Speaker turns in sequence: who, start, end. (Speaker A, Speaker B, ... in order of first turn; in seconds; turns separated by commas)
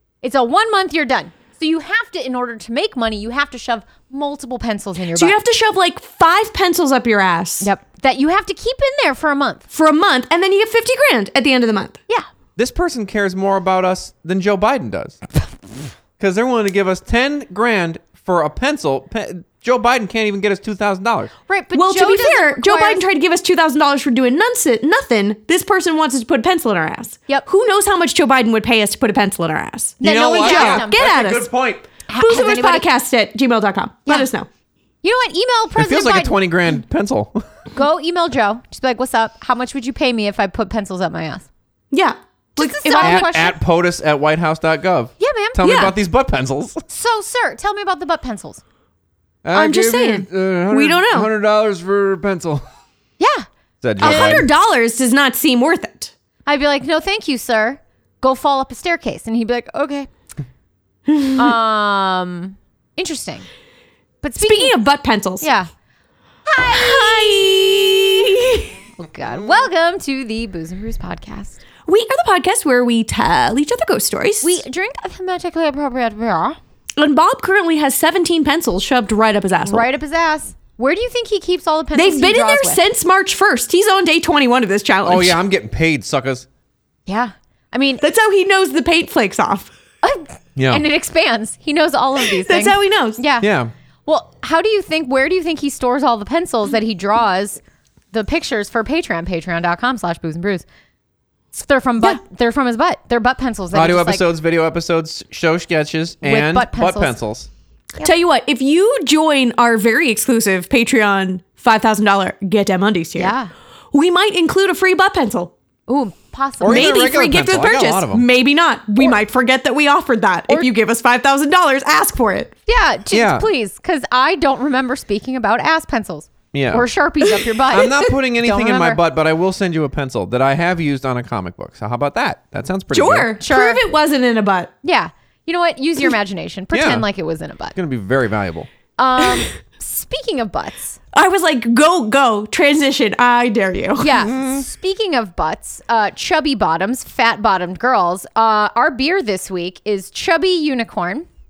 Speaker A: 0.2-5.4, Speaker B: 5.2-7.7, Speaker A: 7.6-9.7, Speaker B: 9.7-12.0, Speaker C: 12.6-15.2, Speaker C: 16.2-21.3, Speaker A: 21.5-23.0, Speaker B: 21.7-31.5, Speaker A: 30.0-31.0, Speaker C: 30.0-31.8, Speaker A: 32.1-32.9, Speaker B: 32.2-34.5, Speaker A: 35.0-36.5, Speaker C: 35.8-37.5, Speaker A: 37.7-41.5, Speaker B: 41.9-43.3, Speaker A: 42.6-43.6, Speaker C: 43.0-46.8, Speaker A: 45.2-45.6, Speaker B: 45.6-46.0, Speaker A: 46.9-48.6, Speaker C: 49.4-52.6, Speaker B: 49.5-51.3, Speaker A: 53.2-53.5, Speaker C: 53.8-54.5, Speaker A: 54.0-54.5, Speaker B: 54.0-56.1, Speaker A: 56.5-60.1, Speaker A: 61.4-63.5, Speaker A: 64.2-64.8, Speaker B: 64.4-65.5, Speaker A: 65.4-65.7, Speaker A: 66.5-68.3, Speaker B: 66.7-68.7, Speaker A: 69.0-71.6, Speaker B: 71.9-74.6, Speaker A: 74.4-76.6, Speaker B: 77.0-79.9, Speaker A: 79.7-82.8, Speaker B: 82.0-85.4, Speaker C: 85.0-86.5, Speaker A: 87.1-88.0, Speaker B: 88.0-89.7, Speaker A: 90.0-93.5, Speaker C: 90.6-90.8, Speaker B: 92.2-93.2, Speaker C: 93.4-93.7, Speaker A: 94.1-97.6, Speaker A: 98.1-100.7, Speaker A: 101.5-104.3, Speaker C: 103.7-107.5, Speaker A: 106.2-107.2, Speaker B: 108.0-113.3, Speaker A: 113.2-113.5, Speaker B: 113.9-115.5, Speaker A: 115.9-117.0, Speaker C: 116.6-118.3, Speaker B: 116.6-122.5, Speaker A: 122.7-129.0, Speaker C: 123.1-123.5, Speaker C: 126.5-126.9, Speaker C: 127.7-133.3, Speaker B: 132.9-134.7, Speaker A: 133.4-133.8, Speaker A: 134.8-137.8, Speaker C: 136.7-137.1, Speaker C: 137.8-138.7, Speaker A: 139.0-141.0, Speaker B: 141.1-144.1, Speaker A: 144.0-151.3, Speaker C: 144.2-144.7